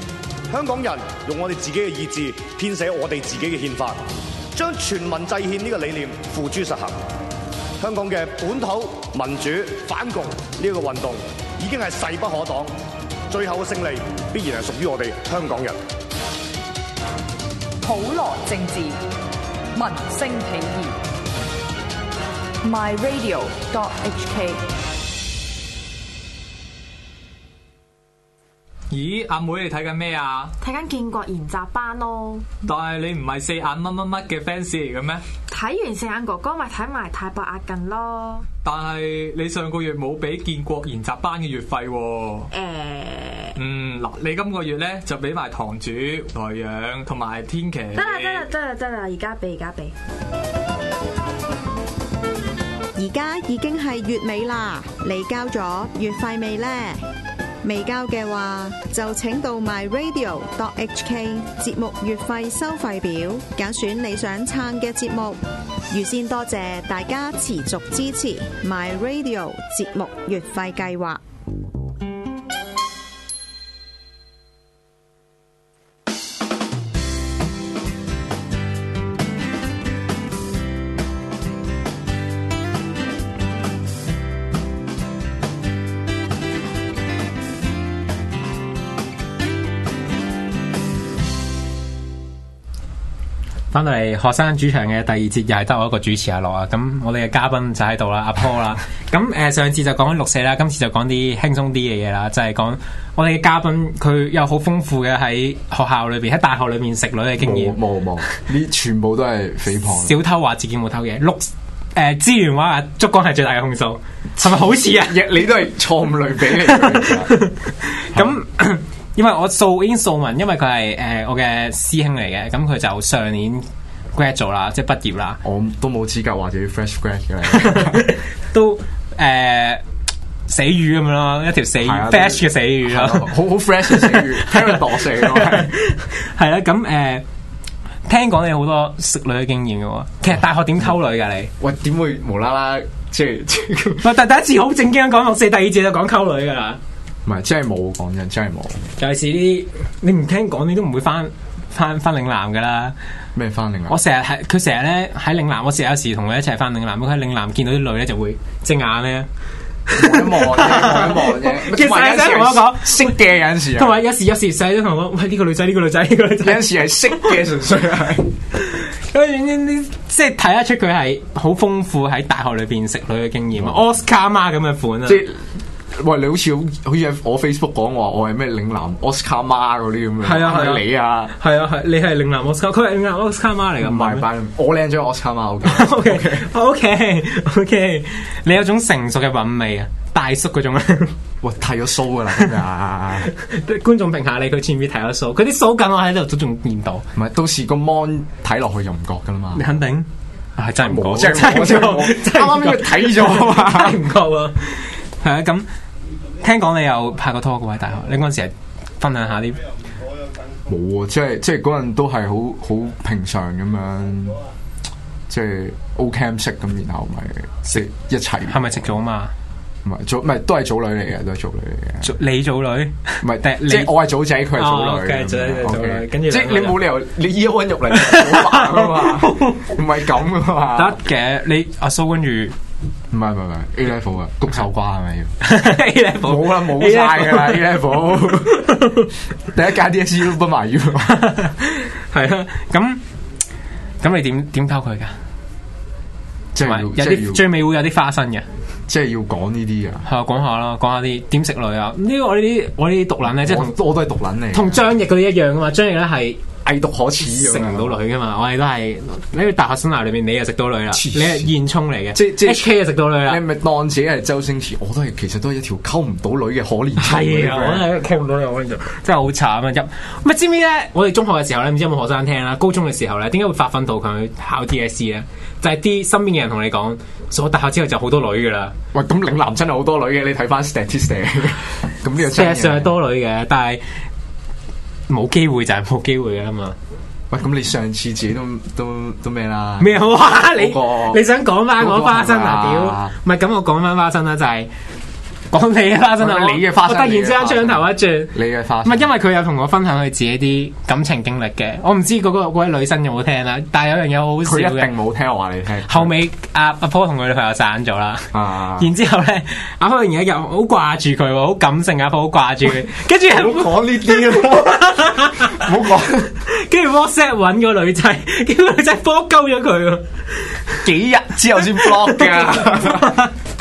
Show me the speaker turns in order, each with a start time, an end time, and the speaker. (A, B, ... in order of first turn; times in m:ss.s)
0:00.5-0:04.0 A
0:04.6-0:06.9 A
0:07.8-0:12.7 A
0:13.3-0:15.8 A
0:17.8-0:19.0 B
0:19.8-0:21.0 B
0:22.6-0:24.6 B
0:28.9-0:31.2 C
0:30.6-0:32.5 D
0:32.2-0:35.3 C
0:35.5-0:38.4 D
0:36.5-0:37.1 C
0:37.9-0:49.7 C
0:42.5-0:42.9 D
0:48.0-0:48.6 D
0:49.1-0:49.9 D
0:53.0-0:57.0 E
0:57.6-1:11.2 E
1:33.7-1:47.8 F
1:47.4-1:50.2 G
1:49.8-1:55.3 F
1:54.4-1:57.4 G
1:56.5-2:05.4 F
1:58.1-1:58.4 G
2:05.4-2:08.1 G
2:07.5-2:09.8 F
2:10.5-2:17.2 F
2:11.8-2:15.7 G
2:18.1-2:21.5 F
2:21.6-2:24.2 G
2:24.0-2:26.8 F
2:27.2-2:28.8 G
2:29.0-2:33.0 F
2:33.4-2:34.0 G
2:33.9-2:39.3 F
2:39.9-2:47.4 F
2:40.0-2:44.0 G
2:46.4-2:48.3 G
2:48.6-2:55.2 F
2:53.6-2:53.9 G
2:55.0-3:01.4 G
3:00.2-3:04.2 F
3:03.8-3:06.5 G
3:05.6-3:11.2 F
3:11.4-3:13.3 G
3:13.2-3:17.1 F
3:17.2-3:19.6 G
3:19.5-3:25.7 F
3:20.6-3:24.0 G
3:26.4-3:29.6 F
3:30.7-3:34.4 G
3:35.3-3:38.6 G
3:38.4-3:39.3 F
3:39.8-3:42.1 G
3:42.0-3:44.0 F
3:43.2-3:51.0 G
3:44.5-3:46.8 F
3:47.9-3:49.7 F
3:50.7-3:52.6 F
3:53.1-3:55.3 G
3:55.4-3:59.1 F
3:56.2-3:58.7 G
3:59.5-4:01.2 G
4:01.1-4:03.0 F
4:04.0-4:05.2 F
4:06.6-4:07.5 G
4:06.6-4:08.5 F
4:08.9-4:10.1 G
4:10.0-4:13.8 F
4:13.3-4:14.9 G
4:14.5-4:16.4 F
4:16.6-4:18.0 G
4:17.2-4:23.4 F
4:20.9-4:21.5 G
4:22.1-4:27.9 G
4:27.0-4:38.7 F
4:38.9-4:43.0 G
4:42.2-4:43.8 F
4:45.1-4:46.8 F
4:47.3-4:51.2 G
4:49.8-4:54.7 F
4:51.8-4:53.2 G
4:55.5-5:04.9 F
4:56.2-4:59.1 G
5:04.4-5:06.1 G
5:05.9-5:15.7 F
5:08.3-5:08.9 G
5:13.3-5:16.3 G
5:16.4-5:20.9 F
5:20.8-5:23.3 G
5:21.7-5:23.3 F